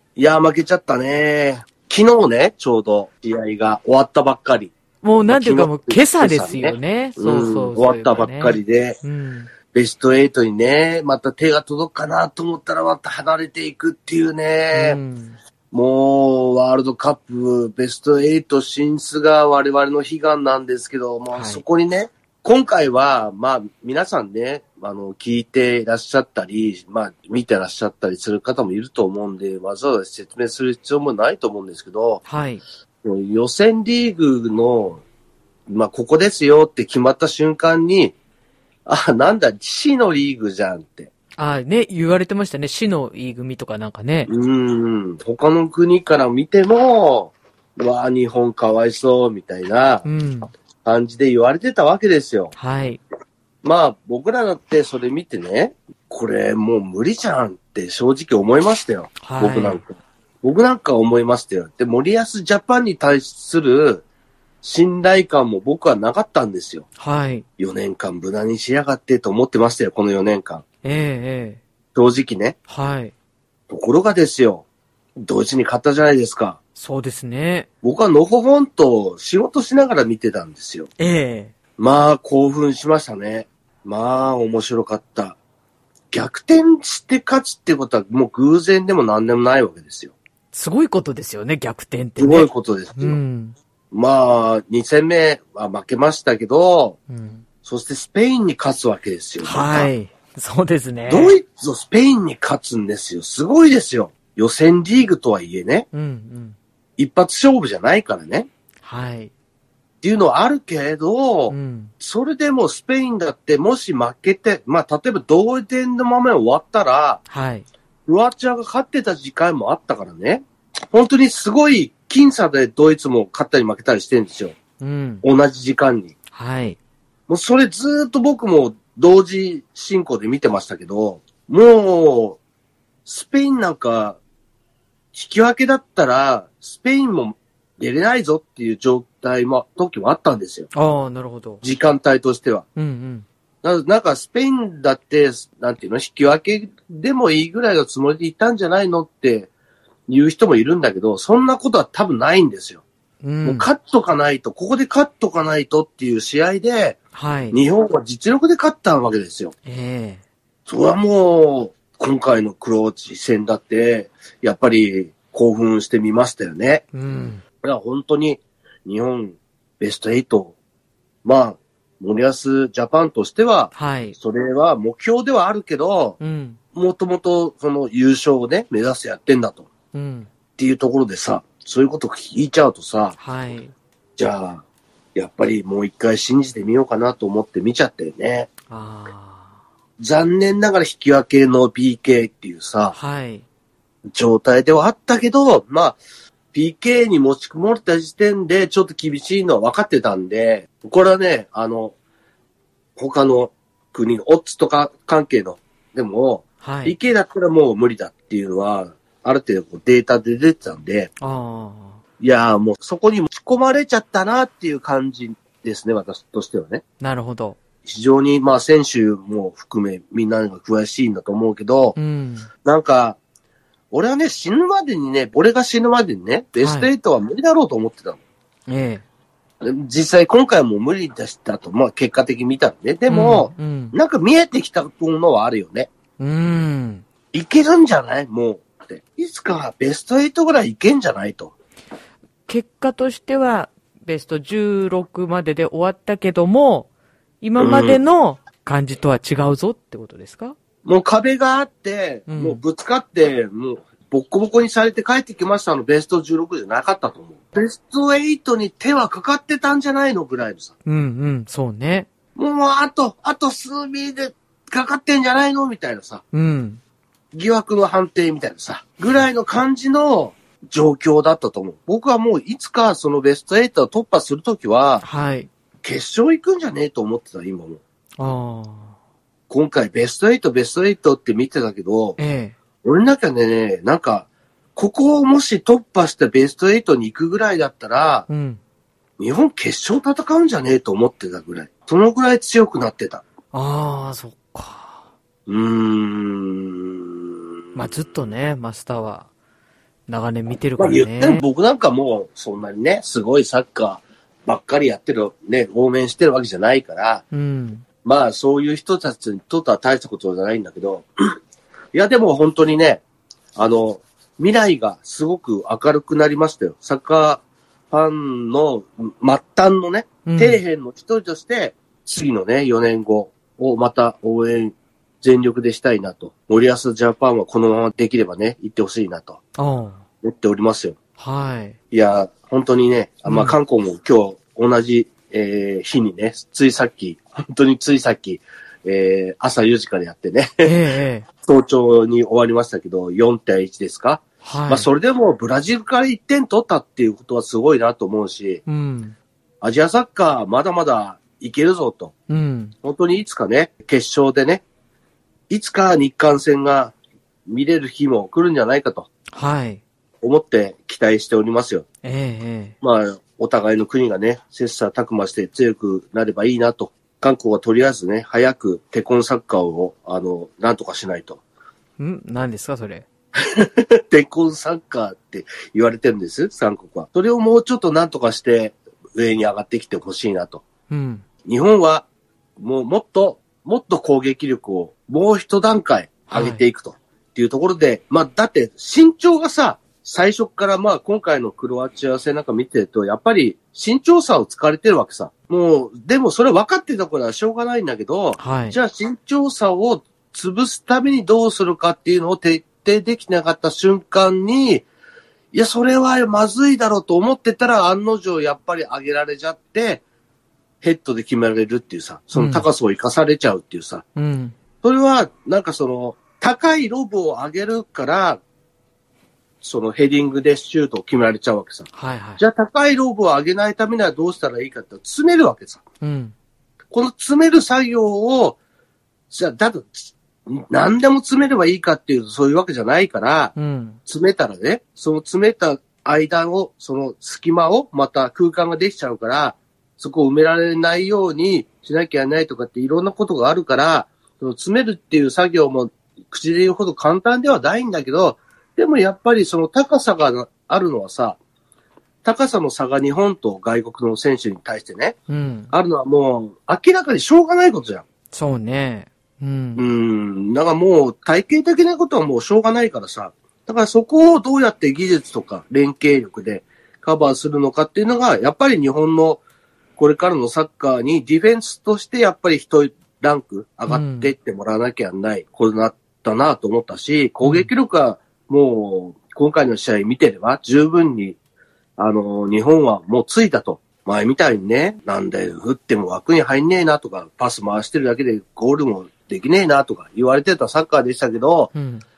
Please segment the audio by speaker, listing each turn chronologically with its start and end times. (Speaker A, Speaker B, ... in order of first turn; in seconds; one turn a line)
Speaker A: 0.2-4.7
Speaker B: 5.0-9.5
Speaker A: 5.3-9.0
Speaker A: 9.7-15.0
Speaker B: 14.7-15.4
Speaker A: 15.7-32.2
Speaker B: 21.3-21.6
Speaker B: 32.2-32.6
Speaker A: 33.0-35.0
Speaker A: 35.7-38.1
Speaker A: 38.9-41.1
Speaker B: 41.4-44.3
Speaker A: 44.3-50.0
Speaker B: 50.0-50.5
Speaker A: 50.8-52.5
Speaker B: 52.5-53.0
Speaker A: 53.6-64.0
Speaker B: 59.2-59.8
Speaker A: 64.6-66.8
Speaker B: 67.0-67.4
Speaker A: 67.6-70.6
Speaker B: 70.8-71.6
Speaker A: 71.9-72.6
Speaker B: 72.7-73.1
Speaker A: 73.7-74.7
Speaker A: 75.2-76.6
Speaker B: 76.8-77.7
Speaker A: 77.8-80.9
Speaker B: 81.0-81.5
Speaker A: 81.8-85.4
Speaker A: 86.1-90.1
Speaker B: 90.5-93.6
Speaker A: 92.2-93.2
Speaker A: 93.9-97.0
Speaker B: 97.1-97.4
Speaker A: 97.6-99.9
Speaker B: 99.4-101.3
Speaker A: 101.1-105.9
Speaker B: 105.9-106.6
Speaker A: 107.0-108.5
Speaker B: 108.8-109.3
Speaker A: 110.0-117.2
Speaker B: 111.5-111.9
Speaker B: 117.3-117.6
Speaker A: 118.1-124.6
Speaker B: 124.8-125.2
Speaker A: 125.2-126.1
Speaker B: 126.3-126.8
Speaker A: 127.3-132.4
Speaker A: 133.1-134.2
Speaker A: 135.1-140.7
Speaker B: 140.7-141.6
Speaker A: 141.6-142.6
Speaker B: 142.8-143.2
Speaker A: 143.6-149.5
Speaker A: 150.1-152.8
Speaker B: 153.2-153.7
Speaker A: 153.4-157.0
Speaker B: 157.1-157.6
Speaker A: 157.5-159.5
Speaker B: 159.6-160.2
Speaker A: 160.7-166.9
Speaker B: 166.9-167.4
Speaker A: 167.6-170.5
Speaker A: 171.2-176.2
Speaker B: 173.7-174.2
Speaker B: 176.2-176.6
Speaker A: 176.7-179.7
Speaker B: 179.9-180.3
Speaker A: 180.6-183.2
Speaker B: 183.2-183.7
Speaker A: 184.2-184.6
Speaker A: 185.1-188.5
Speaker B: 188.7-189.6
Speaker A: 190.0-192.9
Speaker B: 192.9-193.4
Speaker A: 194.1-196.0
Speaker A: 196.5-201.9
Speaker A: 202.9-211.1
Speaker B: 206.6-206.9
Speaker B: 211.2-212.0
Speaker A: 212.2-216.8
Speaker B: 217.0-217.6
Speaker A: 217.8-221.9
Speaker B: 221.9-222.5
Speaker A: 222.6-223.2
Speaker A: 223.9-228.2
Speaker B: 226.6-226.9
Speaker B: 228.7-229.0
Speaker A: 229.6-235.9
Speaker B: 233.1-233.9
Speaker B: 236.2-237.0
Speaker A: 237.3-241.5
Speaker B: 242.5-246.9
Speaker B: 247.4-250.6
Speaker A: 247.6-248.0
Speaker A: 250.8-260.7
Speaker B: 252.3-252.6
Speaker B: 260.9-262.1
Speaker A: 262.4-266.2
Speaker B: 266.3-266.8
Speaker A: 267.3-275.1
Speaker B: 275.0-275.5
Speaker A: 275.8-277.8
Speaker B: 278.2-278.9
Speaker A: 279.5-282.2
Speaker B: 282.2-282.6
Speaker A: 282.8-288.3
Speaker B: 288.3-288.6
Speaker A: 289.2-293.2
Speaker B: 293.5-295.1
Speaker A: 295.5-297.8
Speaker B: 297.8-299.3
Speaker B: 300.1-301.4
Speaker A: 300.8-307.2
Speaker B: 307.3-307.9
Speaker A: 308.0-311.4
Speaker A: 311.9-313.0
Speaker A: 313.6-329.4
Speaker B: 320.2-320.6
Speaker B: 329.6-330.0
Speaker A: 330.2-331.0
Speaker B: 331.2-331.8
Speaker A: 331.9-340.8
Speaker B: 333.2-333.6
Speaker B: 340.6-341.3
Speaker A: 341.4-348.6
Speaker B: 344.4-344.9
Speaker B: 348.7-349.1
Speaker A: 349.6-352.1
Speaker B: 352.3-352.8
Speaker A: 352.8-354.6
Speaker A: 355.5-356.9
Speaker A: 357.5-359.1
Speaker B: 359.3-359.8
Speaker A: 360.2-361.9
Speaker B: 362.0-362.8
Speaker A: 362.8-371.4
Speaker B: 372.0-373.1
Speaker A: 373.4-380.7
Speaker B: 380.9-381.2
Speaker A: 381.4-382.1
Speaker A: 382.6-404.9
Speaker B: 386.3-386.6
Speaker B: 398.4-398.8
Speaker A: 405.5-410.0
Speaker A: 410.8-414.0
Speaker B: 412.3-412.7
Speaker B: 414.1-414.6
Speaker A: 414.8-418.4
Speaker A: 419.6-425.8
Speaker B: 421.9-422.4
Speaker B: 426.0-426.3
Speaker A: 426.9-428.6
Speaker A: 429.3-433.5
Speaker B: 433.6-434.0
Speaker A: 434.1-451.4
Speaker A: 452.2-455.2
Speaker B: 455.3-455.7
Speaker A: 455.7-458.1
Speaker B: 458.3-459.8
Speaker A: 459.8-469.4
Speaker A: 470.0-481.4
Speaker B: 473.9-474.3
Speaker B: 477.4-477.7
Speaker A: 482.0-491.7
Speaker B: 491.7-492.0